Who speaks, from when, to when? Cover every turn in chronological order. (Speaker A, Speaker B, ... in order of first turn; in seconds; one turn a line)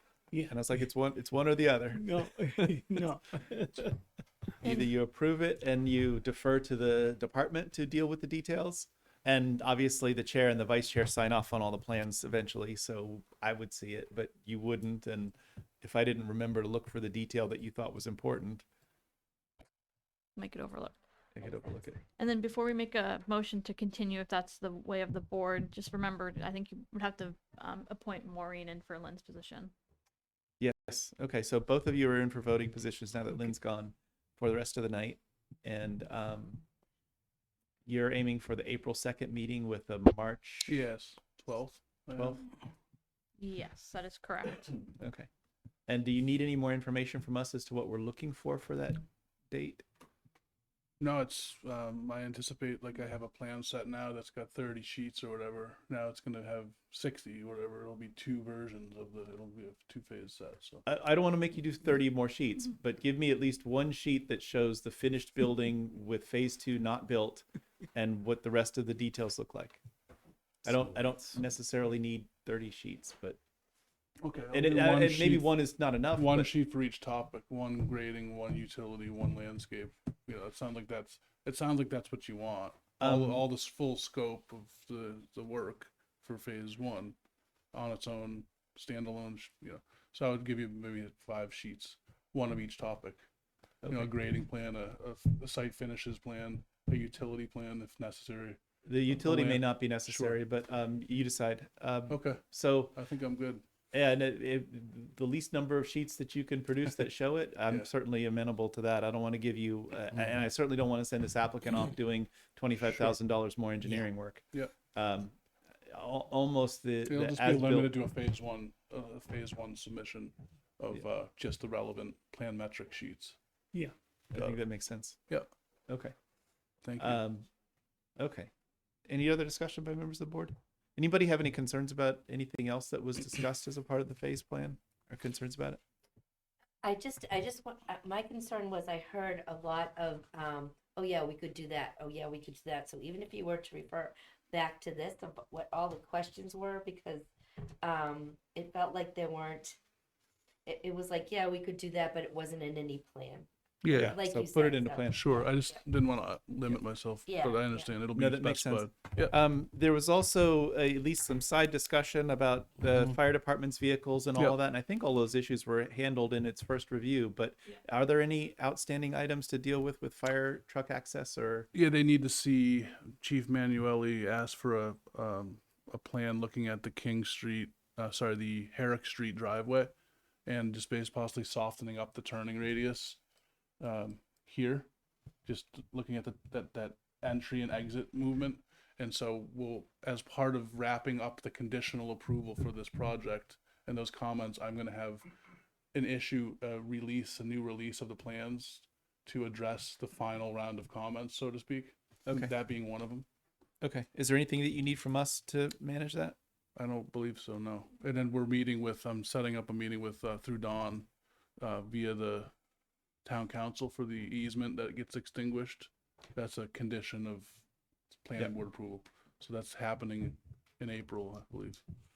Speaker A: 0.3-0.6
Speaker B: 0.5-2.8
Speaker A: 1.9-4.0
Speaker B: 4.6-18.6
Speaker C: 4.6-4.9
Speaker C: 20.4-20.9
Speaker B: 21.4-22.0
Speaker C: 22.2-29.7
Speaker B: 30.6-36.6
Speaker B: 37.9-40.8
Speaker D: 40.7-42.5
Speaker B: 42.1-42.4
Speaker C: 43.4-44.8
Speaker B: 45.0-45.3
Speaker B: 45.9-49.9
Speaker D: 51.0-60.8
Speaker B: 60.9-69.8
Speaker B: 70.6-73.4
Speaker D: 74.2-75.6
Speaker B: 74.5-76.5
Speaker D: 76.1-87.2
Speaker B: 83.0-83.5
Speaker D: 87.7-93.2
Speaker B: 93.8-94.1
Speaker D: 93.8-100.4
Speaker B: 98.8-103.0
Speaker D: 102.1-103.6
Speaker B: 103.9-115.3
Speaker D: 112.8-113.2
Speaker B: 115.9-117.9
Speaker D: 117.1-123.4
Speaker B: 124.3-125.2
Speaker B: 125.9-126.1
Speaker D: 126.8-127.2
Speaker B: 127.0-127.5
Speaker B: 128.2-128.5
Speaker B: 129.1-135.8
Speaker E: 136.8-147.3
Speaker E: 147.8-149.8
Speaker E: 150.7-155.8
Speaker D: 153.8-154.2
Speaker B: 153.9-155.4
Speaker D: 155.1-159.3
Speaker E: 157.3-157.9
Speaker B: 158.1-171.7
Speaker D: 171.7-179.9
Speaker D: 180.5-183.2
Speaker D: 183.8-184.9
Speaker D: 185.4-195.3
Speaker D: 195.9-203.3
Speaker B: 203.8-206.4
Speaker D: 206.8-211.1
Speaker D: 211.6-212.5
Speaker D: 213.2-217.6
Speaker D: 218.2-221.8